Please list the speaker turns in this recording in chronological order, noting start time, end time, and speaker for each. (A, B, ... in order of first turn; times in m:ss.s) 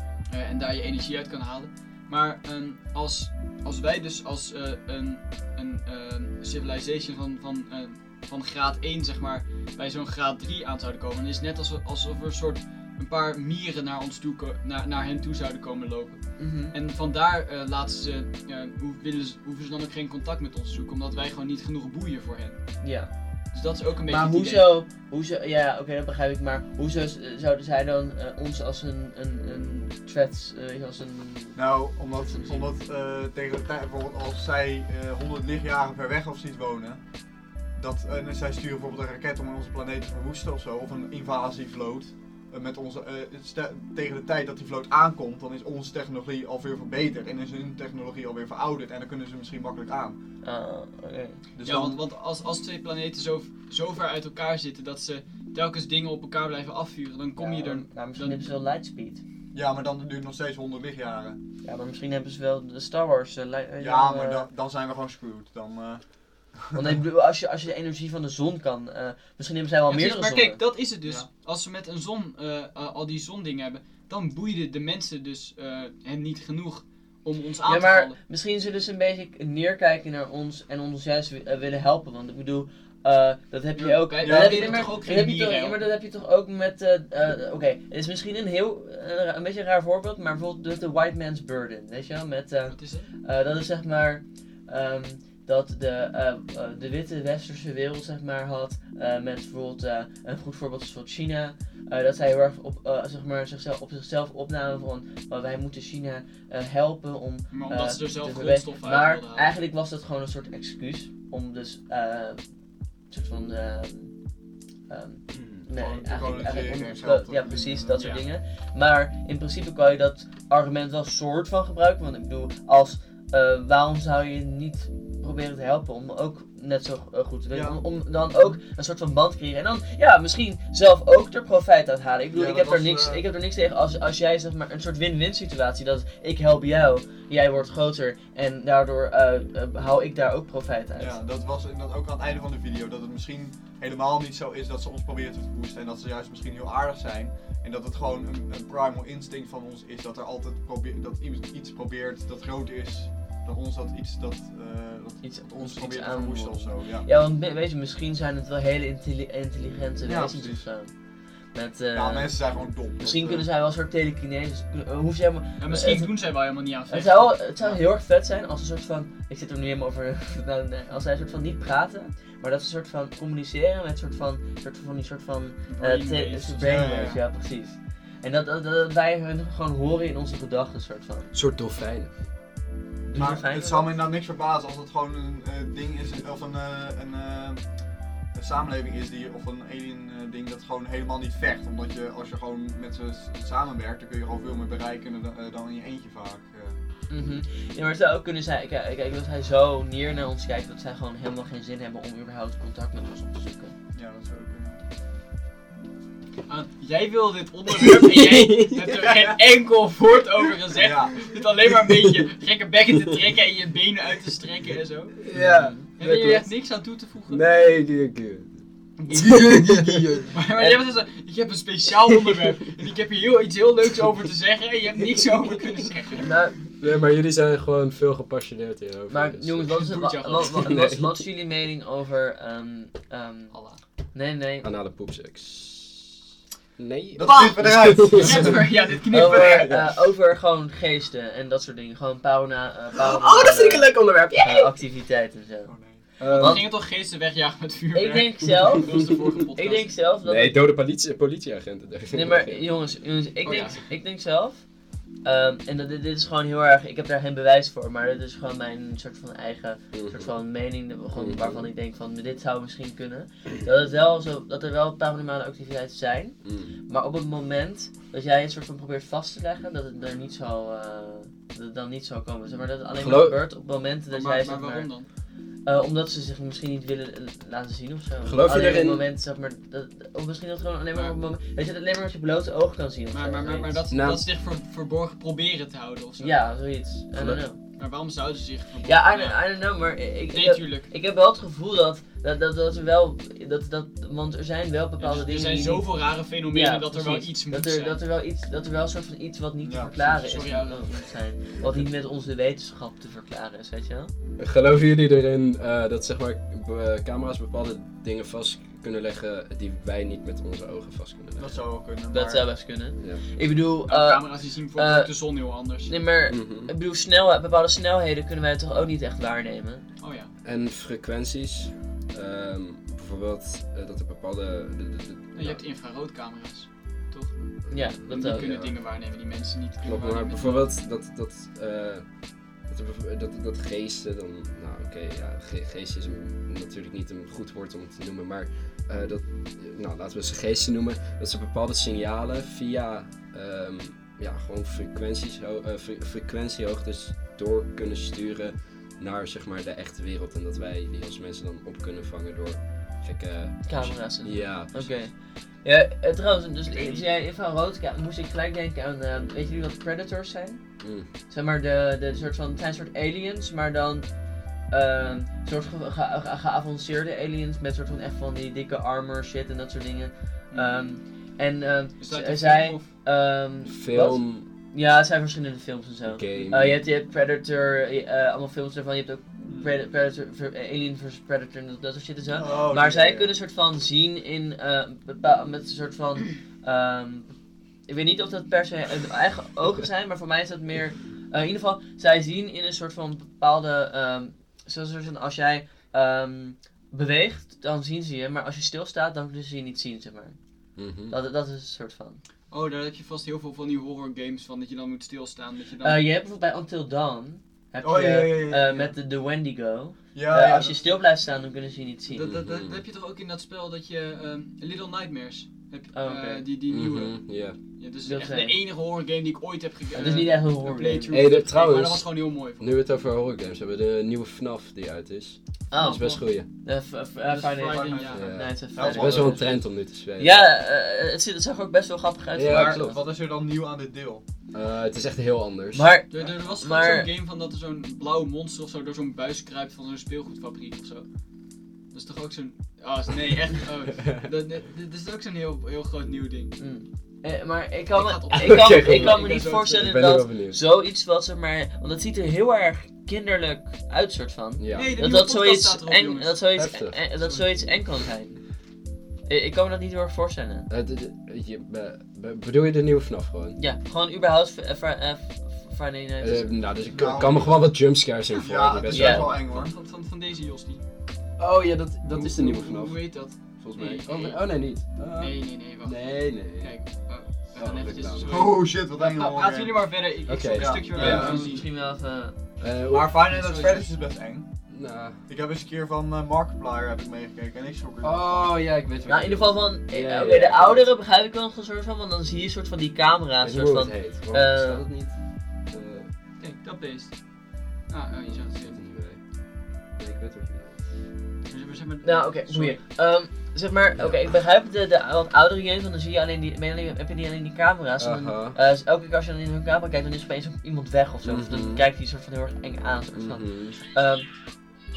0:00.3-0:24.8 A
0:16.4-0:16.7 B
0:22.8-0:23.3 B
0:24.0-0:31.6 B
0:31.5-0:37.0 C
0:32.2-0:32.7 B
0:37.7-0:50.2 C
0:50.4-0:51.4 B
0:51.5-0:52.0 C
0:51.6-0:58.5 A
0:57.4-0:59.2 B
0:59.5-1:01.4 C
1:01.6-1:04.5 B
1:03.8-1:06.8 C
1:06.7-1:10.6 B
1:09.9-1:18.2 A
1:17.6-1:52.4 B
1:23.8-1:25.8 A
1:24.2-1:24.9 C
1:32.7-1:33.1 A
1:47.5-1:49.5 A
1:53.1-1:54.1 B
1:54.9-2:21.2 B
1:55.3-1:55.6 D
1:55.7-1:58.1 C
1:58.0-1:58.2 A
2:07.5-2:07.8 C
2:12.3-2:13.2 C
2:21.0-2:37.1 C
2:35.2-2:40.9 B
2:40.0-2:40.6 C
2:41.5-2:46.2 B
2:41.9-2:43.5 C
2:45.6-2:47.4 A
2:46.9-3:01.3 B
2:55.7-2:56.6 A
2:56.6-2:57.2 C
3:01.3-3:02.1 D
3:03.1-3:04.0 B
3:03.1-3:07.7 C
3:08.3-3:16.8 C
3:17.1-3:23.7 B
3:23.9-3:24.8 C
3:26.5-3:35.2 A
3:27.8-3:29.4 D
3:30.7-3:31.2 C
3:31.9-3:32.2 D
3:35.2-3:36.5 D
3:36.0-3:37.5 A
3:37.3-3:38.6 D
3:39.0-3:46.4 A
3:39.1-3:39.7 B
3:39.1-3:40.3 D
3:40.6-3:40.8 B
3:46.2-3:46.6 B
3:46.8-3:49.8 D
3:49.1-3:53.5 B
3:49.7-3:50.8 A
3:50.5-3:51.1 D
3:53.5-3:53.8 A
3:54.1-3:54.7 B
3:54.6-3:56.0 D
3:56.8-3:58.7 D
3:57.1-3:58.6 C
3:57.2-3:59.8 A
3:59.1-4:06.7 B
3:59.3-3:59.8 D
4:03.0-4:04.7 D
4:05.6-4:06.0 C
4:06.2-4:06.6 D
4:06.2-4:09.9 A
4:07.9-4:10.6 B
4:10.2-4:12.6 D
4:12.1-4:14.6 B
4:13.4-4:13.8 A
4:15.2-4:34.9 B
4:19.9-4:20.3 D
4:21.1-4:21.7 D
4:26.4-4:26.7 D
4:33.0-4:33.4 D
4:34.1-4:35.1 A
4:35.6-4:43.8 B
4:38.2-4:39.1 D
4:43.1-4:46.5 A
4:43.9-4:44.3 D
4:46.2-4:47.6 B
4:47.1-4:47.4 D
4:47.8-4:49.6 A
4:48.8-5:04.1 B
4:50.3-4:50.9 A
4:55.0-4:58.0 A
4:59.6-4:59.9 C
5:00.0-5:01.1 A
5:04.4-5:11.6 D
5:11.4-5:12.5 C
5:12.1-5:19.9 B
5:13.9-5:15.9 A
5:16.3-5:16.7 D
5:20.0-5:20.3 A
5:20.4-5:25.6 D
5:25.3-5:30.7 A
5:27.6-5:28.8 D
5:27.7-5:28.5 B
5:29.8-5:55.0 D
5:53.6-6:00.6 B
5:56.6-5:57.1 A
6:00.8-6:01.1 D
6:01.3-6:04.1 B
6:04.7-6:27.3 B
6:10.5-6:10.9 A
6:12.0-6:12.9 A
6:13.7-6:14.5 D
6:16.1-6:16.8 D
6:22.3-6:23.3 C
6:27.9-6:40.4 B
6:40.8-6:41.2 D
6:41.1-6:42.2 B
6:42.5-6:46.0 A
6:45.8-6:52.3 B
6:47.8-6:48.9 C
6:50.1-6:50.8 C
6:52.1-7:02.8 A
6:52.2-6:52.8 D
6:55.9-6:56.5 B
6:56.7-6:57.6 D
6:58.0-6:58.6 B
6:59.9-7:01.2 B
7:01.1-7:06.5 D
7:05.7-7:09.6 B
7:05.8-7:06.0 A
7:07.3-7:08.3 A
7:07.6-7:09.6 C
7:08.1-7:10.5 D
7:10.2-7:13.0 B
7:12.3-7:13.0 D
7:12.5-7:14.2 C
7:14.5-7:15.9 D
7:15.7-7:17.1 B
7:16.1-7:21.1 A
7:21.9-7:26.6 A
7:26.6-7:38.4 B
7:27.9-7:30.0 A
7:28.4-7:30.6 D
7:34.6-7:34.9 D
7:34.7-7:36.4 A
7:36.5-7:37.0 D
7:39.3-7:40.7 B
7:40.7-7:43.6 D
7:43.6-7:46.6 B
7:46.2-7:49.4 D
7:46.9-7:47.8 C
7:48.3-7:50.8 A
7:48.4-7:49.7 C
7:48.9-7:49.3 B
7:51.4-7:58.5 D
7:52.1-8:01.6 A
7:58.2-8:01.4 C
8:00.3-8:01.3 D
8:00.9-8:02.4 B
8:02.6-8:03.2 D
8:02.9-8:04.5 C
8:03.3-8:03.8 A
8:04.7-8:05.1 D
8:05.3-8:08.6 C
8:08.0-8:10.9 D
8:09.1-8:14.8 B
8:13.4-8:16.1 D
8:16.4-8:17.1 A
8:17.9-8:18.8 A
8:18.3-8:19.2 D
8:19.9-8:20.8 D
8:21.5-8:22.8 A
8:22.0-8:34.3 B
8:24.0-8:24.2 D
8:28.0-8:28.6 D
8:31.2-8:31.8 D
8:33.1-8:33.8 D